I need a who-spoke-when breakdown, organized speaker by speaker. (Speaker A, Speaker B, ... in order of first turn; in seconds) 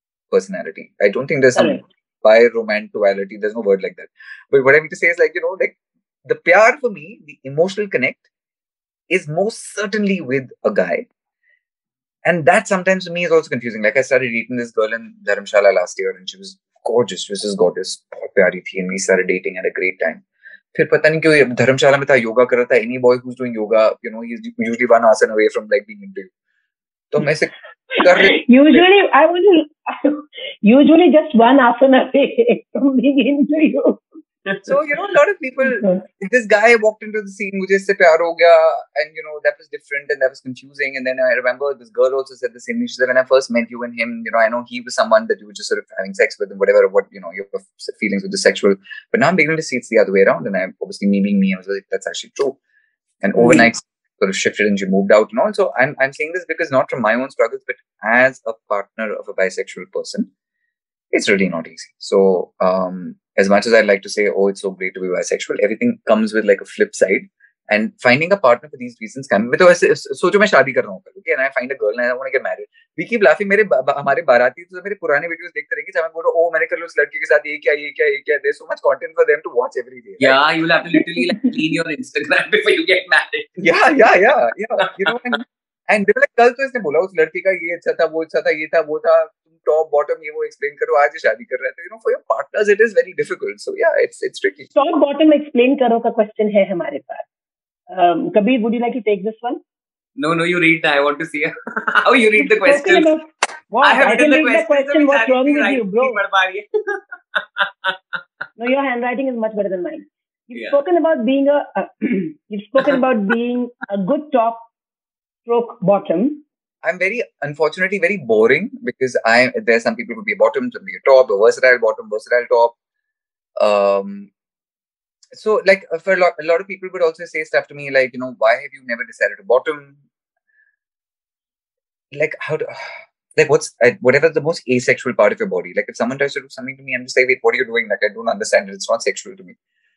Speaker A: 0.3-8.2, 9.1-11.1, 12.2-20.2, 20.7-26.3, 27.1-28.9, 34.7-52.6, 53.2-60.3, 61.1-80.4, 83.6-94.7, 116.8-122.8, 123.6-124.3, 125.3-130.0, 132.1-139.6
Speaker B: 1.6-1.8, 27.9-34.0, 35.7-36.0, 53.4-53.7, 81.0-81.5, 94.8-97.3, 97.9-99.6, 102.4-106.2, 108.6-114.7, 115.5-116.4
Speaker C: 80.2-83.7, 100.2-103.1, 103.8-108.2, 110.5-110.8